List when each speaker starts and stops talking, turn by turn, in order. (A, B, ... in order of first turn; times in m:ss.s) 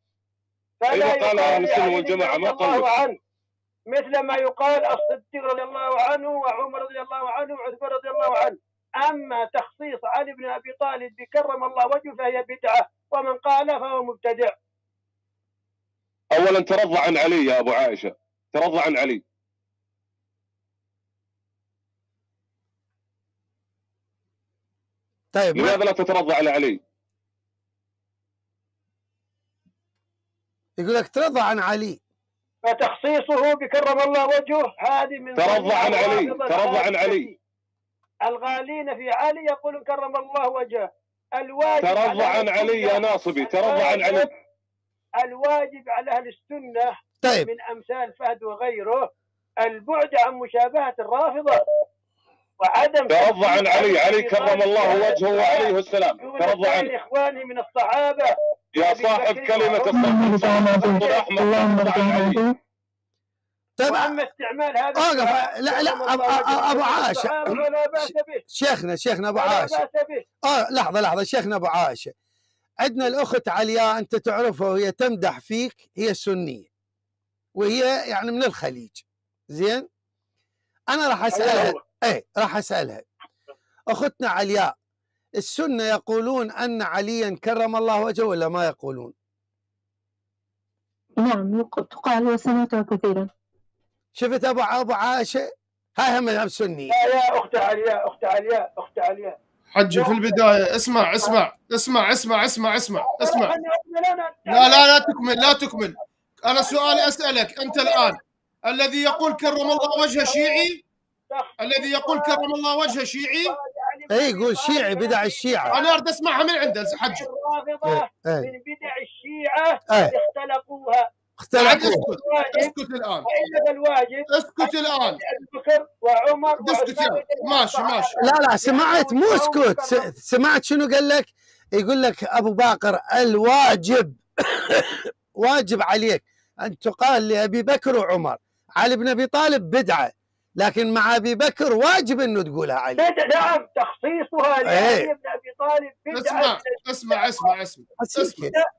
0:00.8-0:03.2 A
0:00.9-0:03.0 B
0:03.9-0:14.5 A
0:16.3-0:19.2 B
0:25.3-0:25.8 C
0:25.5-0:26.8 B
0:30.8-0:32.0 C
0:32.6-0:37.4 A
0:35.4-0:37.3 B
0:38.2-0:44.3 A
0:41.8-0:44.3 B
0:45.2-0:49.1 A
0:47.2-0:47.5 C
0:49.6-0:51.6 A
0:52.6-1:00.1 A
0:53.1-0:56.9 B
0:58.7-1:02.4 B
0:59.9-1:02.6 D
1:01.0-1:01.2 A
1:03.8-1:04.2 C
1:03.8-1:08.4 A
1:05.0-1:07.6 C
1:08.5-1:09.8 C
1:09.4-1:10.2 A
1:10.4-1:12.1 C
1:12.8-1:16.7 C
1:17.6-1:19.9 C
1:20.9-1:23.0 C
1:21.3-1:21.8 A
1:23.9-1:24.7 C
1:25.4-1:29.1 C
1:31.2-1:33.3 D
1:34.1-1:36.9 C
1:36.9-1:39.4 A
1:39.7-1:43.5 E
1:39.9-1:40.4 A
1:43.0-1:45.5 A
1:44.5-1:50.8 E
1:46.6-1:47.1 A
1:47.7-1:48.2 A
1:49.1-1:50.7 A
1:51.3-1:52.4 A
1:51.6-1:53.6 E
1:53.4-1:56.0 A
1:54.1-1:55.8 C
1:55.7-1:57.2 E
1:56.6-2:01.1 A
1:57.8-1:58.5 C
1:59.9-2:00.1 C
2:01.4-2:02.0 C
2:01.6-2:03.3 E
2:01.7-2:02.7 A
2:03.2-2:10.1 A
2:04.3-2:05.2 E
2:06.6-2:08.1 E
2:08.2-2:23.1 C
2:23.0-2:27.5 A
2:24.6-2:25.1 C
2:26.1-2:28.5 E
2:28.0-2:28.5 C